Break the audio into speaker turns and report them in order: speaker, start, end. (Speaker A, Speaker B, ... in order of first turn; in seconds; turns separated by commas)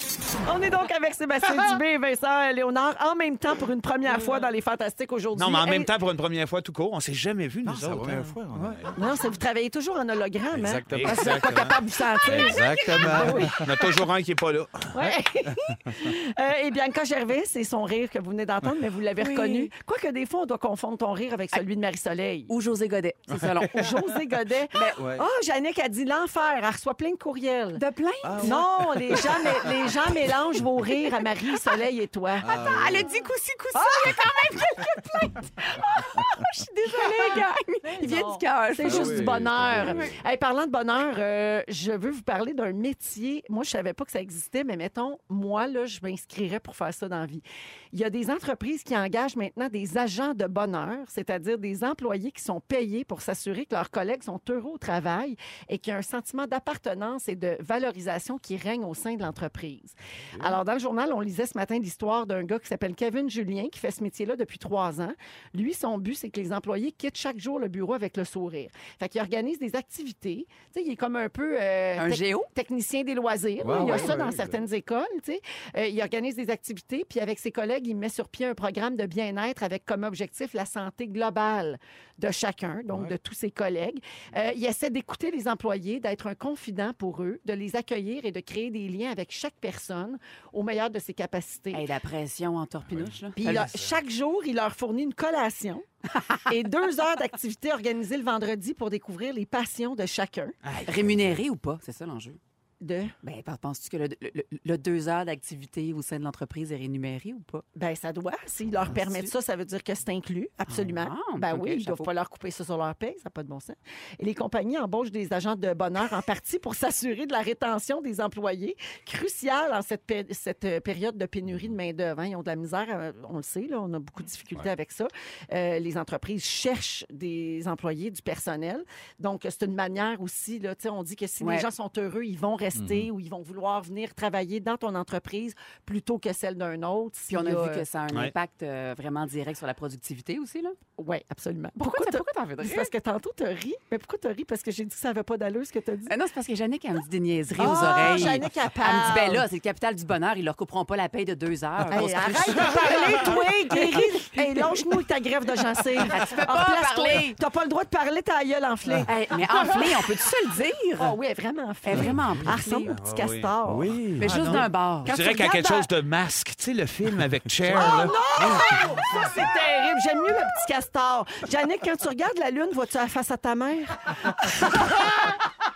Speaker A: 0.4-5.9, Speaker B: 5.3-8.4, Speaker C: 7.7-9.1, Speaker A: 8.9-13.9, Speaker C: 10.5-11.3, Speaker B: 10.9-11.8, Speaker C: 12.2-13.7, Speaker B: 13.1-15.1, Speaker A: 14.9-22.5, Speaker D: 19.2-19.7, Speaker D: 22.5-23.9, Speaker A: 23.6-27.8, Speaker D: 24.7-25.0, Speaker C: 25.0-25.3, Speaker D: 27.8-28.6, Speaker C: 28.2-30.0, Speaker A: 28.4-32.6, Speaker C: 32.4-33.1, Speaker D: 32.5-39.3, Speaker A: 33.8-34.2, Speaker A: 37.2-91.9, Speaker C: 38.8-40.2, Speaker D: 72.0-72.5, Speaker C: 73.6-74.6, Speaker D: 91.7-93.7, Speaker A: 93.4-95.8, Speaker B: 93.4-94.0, Speaker A: 96.5-100.6, Speaker B: 100.6-101.4, Speaker D: 100.8-102.4, Speaker A: 102.8-103.2, Speaker D: 103.2-107.6, Speaker A: 107.8-137.8, Speaker D: 108.9-109.3, Speaker D: 110.7-112.1, Speaker C: 121.5-121.8, Speaker D: 131.4-131.7, Speaker C: 132.8-133.1, Speaker D: 137.3-140.8, Speaker A: 141.0-146.1, Speaker D: 141.8-142.9, Speaker D: 146.1-154.4, Speaker A: 147.6-149.5, Speaker A: 151.9-160.1, Speaker D: 156.1-157.4, Speaker D: 159.1-161.2, Speaker A: 161.0-165.9, Speaker D: 161.8-162.9, Speaker B: 162.9-169.2, Speaker C: 163.7-164.6, Speaker D: 164.2-165.1, Speaker A: 167.7-175.4